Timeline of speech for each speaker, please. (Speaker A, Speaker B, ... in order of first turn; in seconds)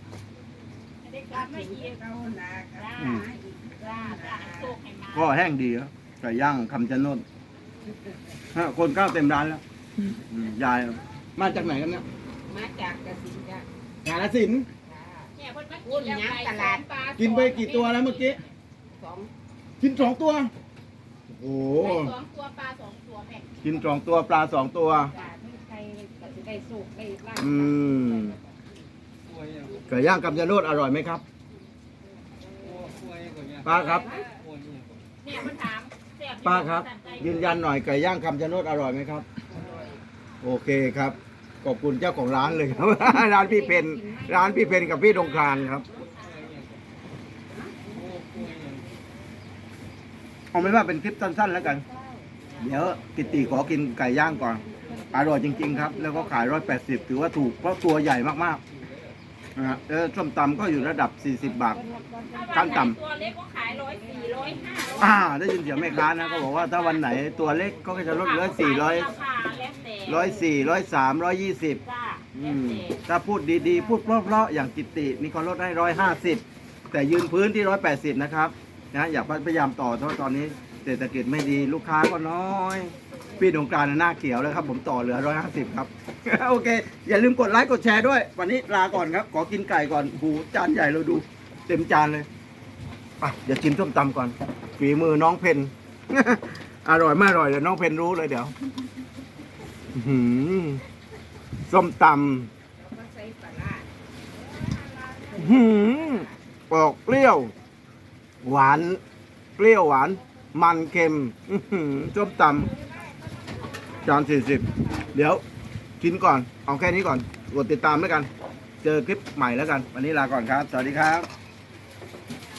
Speaker A: 1.0-2.0, 2.7-5.3, 15.3-18.5, 21.8-23.5, 35.2-37.5, 44.7-46.5, 62.3-67.1, 68.1-70.3, 71.8-73.0
Speaker B: 1.3-4.7, 12.4-13.7, 14.8-15.3, 15.8-17.6, 18.9-19.3, 25.1-28.4, 32.3-32.9, 33.9-34.2, 39.5-40.0, 42.5-44.9, 47.5-48.8, 52.0-52.3, 54.7-56.6, 61.7-63.0, 64.0-65.1, 102.8-103.9, 105.0-106.3, 112.7-114.1
Speaker C: 3.0-3.3, 5.1-7.2, 8.5-12.0, 14.0-14.7, 17.2-18.4, 19.8-20.5, 21.3-22.1, 23.6-25.1, 27.4-28.4, 29.9-31.2, 33.6-34.2, 36.4-39.2, 40.4-45.9, 50.5-51.8, 52.6-58.6, 59.5-61.8, 62.5-63.0, 65.0-69.1, 70.0-71.8, 72.3-92.3, 93.2-98.5, 99.9-100.8, 101.7-102.5, 105.3-107.5, 108.4-109.0, 109.6-112.7, 114.0-115.4, 116.0-118.3, 118.8-121.3